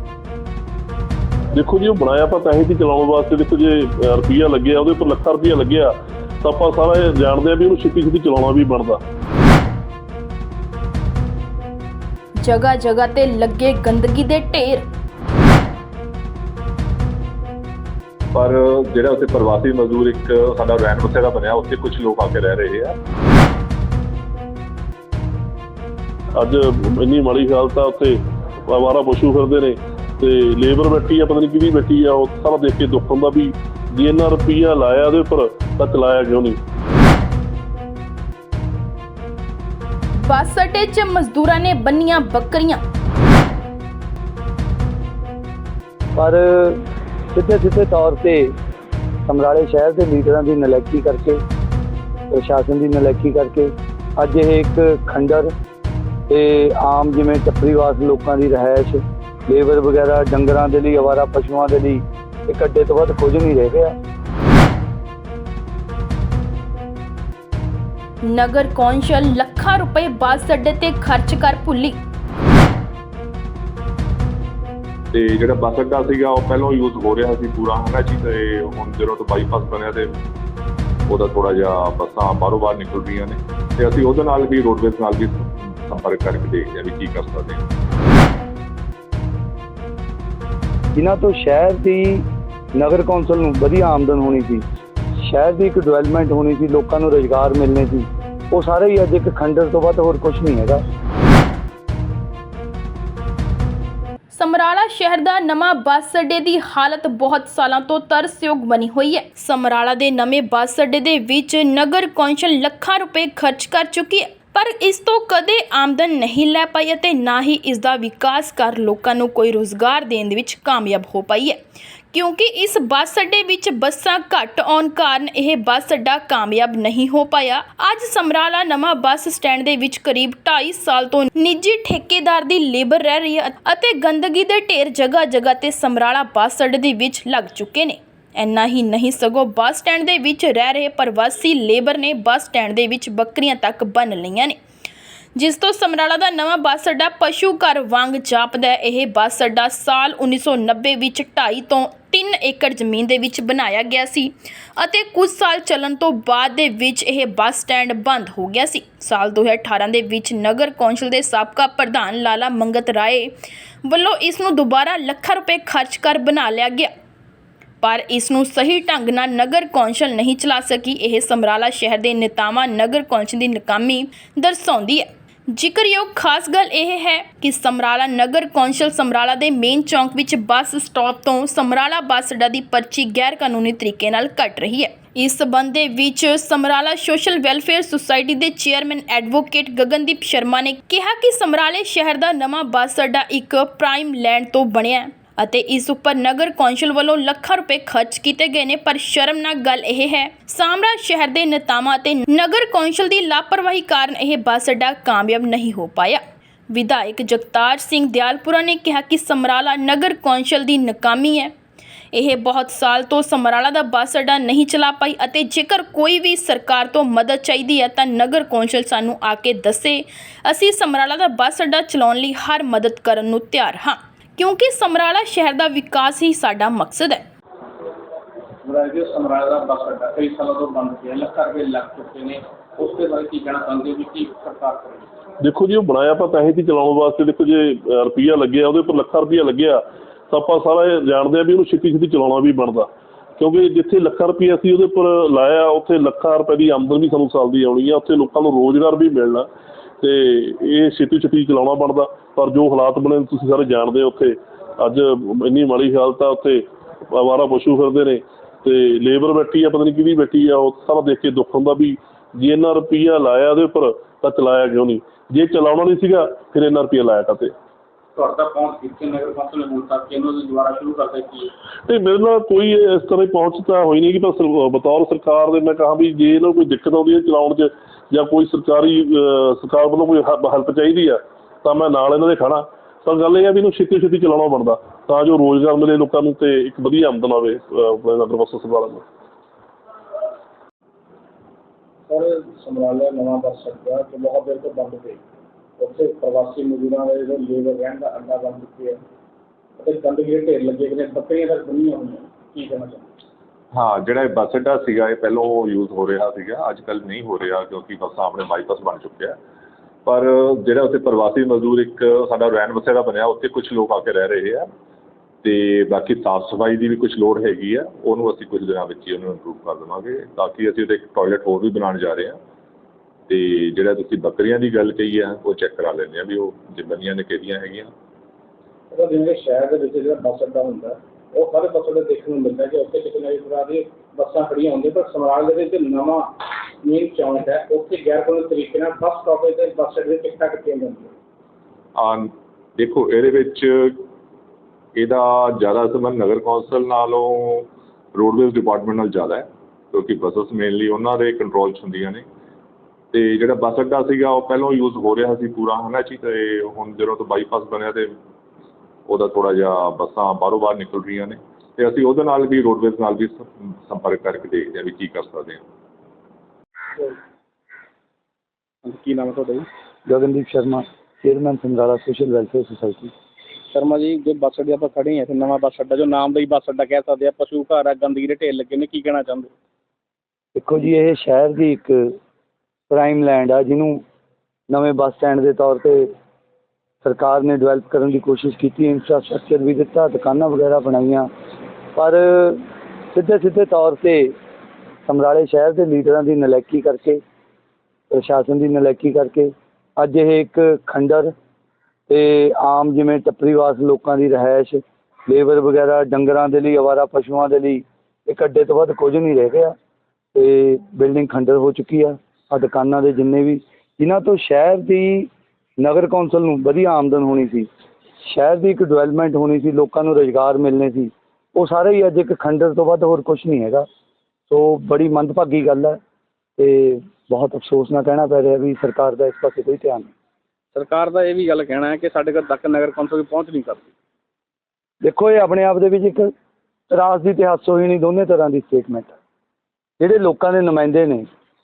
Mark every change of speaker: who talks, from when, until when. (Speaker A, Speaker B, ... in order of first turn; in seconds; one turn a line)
Speaker A: 1.5-9.0
Speaker B: 12.4-14.8
Speaker C: 18.3-23.0
Speaker A: 26.4-36.6
Speaker B: 40.2-42.8
Speaker D: 46.2-48.5
Speaker D: 49.3-51.4
Speaker D: 52.3-55.5
Speaker D: 56.3-64.0
Speaker B: 68.3-72.0
Speaker C: 75.1-80.1
Speaker C: 81.1-87.6
Speaker D: 91.0-92.2
Speaker D: 92.8-94.6
Speaker D: 95.2-100.8
Speaker B: 104.3-121.6
Speaker B: 122.1-144.6
Speaker B: 145.3-163.3
Speaker B: 163.8-166.9
Speaker B: 167.8-206.2
Speaker B: 206.7-211.5
Speaker B: 212.1-227.2
Speaker E: 228.6-235.1
Speaker A: 235.4-249.5
Speaker A: 250.0-267.5
Speaker E: 268.2-271.5
Speaker A: 271.9-289.1
Speaker E: 292.1-295.2
Speaker E: 295.8-299.0
Speaker E: 299.8-303.1
Speaker C: 303.7-309.4
Speaker C: 310.1-314.7
Speaker C: 315.4-322.4
Speaker C: 323.3-327.9
Speaker E: 328.9-336.3
Speaker E: 336.8-341.1
Speaker C: 342.0-344.1
Speaker C: 345.0-352.2
Speaker C: 353.1-358.1
Speaker C: 359.1-365.6
Speaker E: 368.9-369.7
Speaker D: 370.1-373.1
Speaker E: 373.7-379.5
Speaker D: 380.6-382.2
Speaker D: 382.9-384.0
Speaker D: 384.7-386.1
Speaker D: 387.0-391.3
Speaker D: 392.0-394.3
Speaker D: 395.1-397.2
Speaker D: 398.1-401.3
Speaker D: 402.1-409.8
Speaker D: 410.3-417.7
Speaker D: 418.2-423.9
Speaker D: 424.5-426.0
Speaker D: 426.6-430.1
Speaker E: 430.7-433.9
Speaker D: 435.0-436.3
Speaker D: 436.9-439.1
Speaker D: 440.0-441.3